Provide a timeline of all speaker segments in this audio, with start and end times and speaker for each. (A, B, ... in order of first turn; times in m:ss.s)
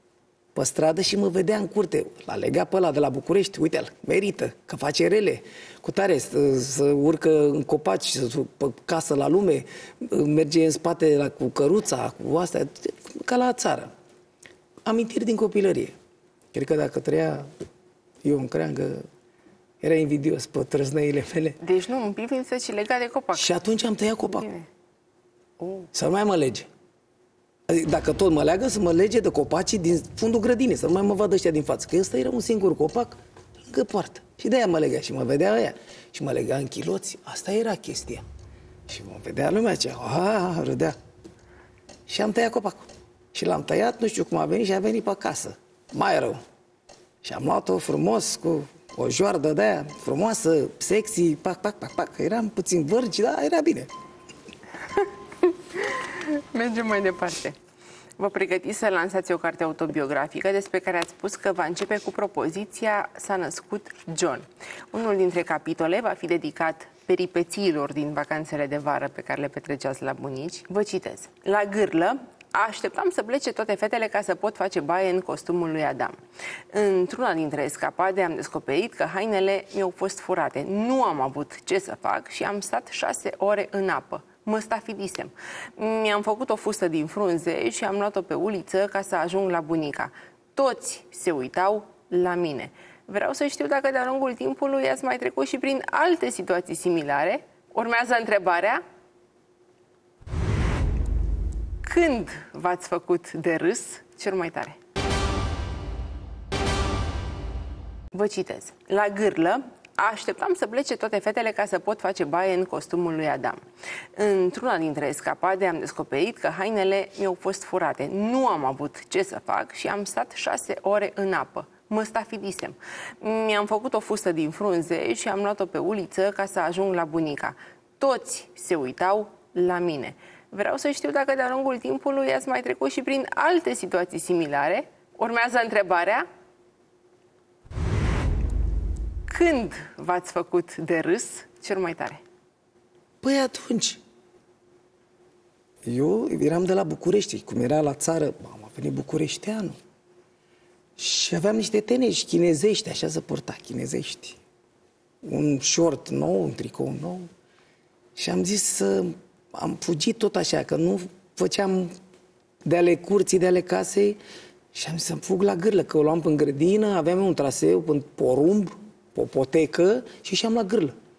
0:00.5-0:13.9 A
0:14.8-0:15.9 A
0:16.5-0:17.5 A
0:18.2-0:19.0 A
0:19.8-0:21.6 A
0:21.6-0:23.5 B
0:23.3-0:24.5 A
0:24.3-0:24.7 B
0:25.9-0:26.7 A
0:27.7-0:38.2 A
0:38.9-0:41.0 A
0:42.1-0:46.4 A
0:47.2-0:53.9 A
0:55.0-0:57.6 B
0:58.2-1:16.2 B
1:16.7-1:38.8 B
1:41.8-1:44.8 B
1:48.1-1:53.6 B
1:54.2-2:16.2 B
2:19.3-2:22.2 B
2:23.2-2:24.0 A
2:25.8-2:29.8 A
2:31.0-2:34.4 A
2:35.2-2:37.3 A
2:38.2-2:41.9 A
2:42.6-2:44.2 A
2:44.7-2:50.9 A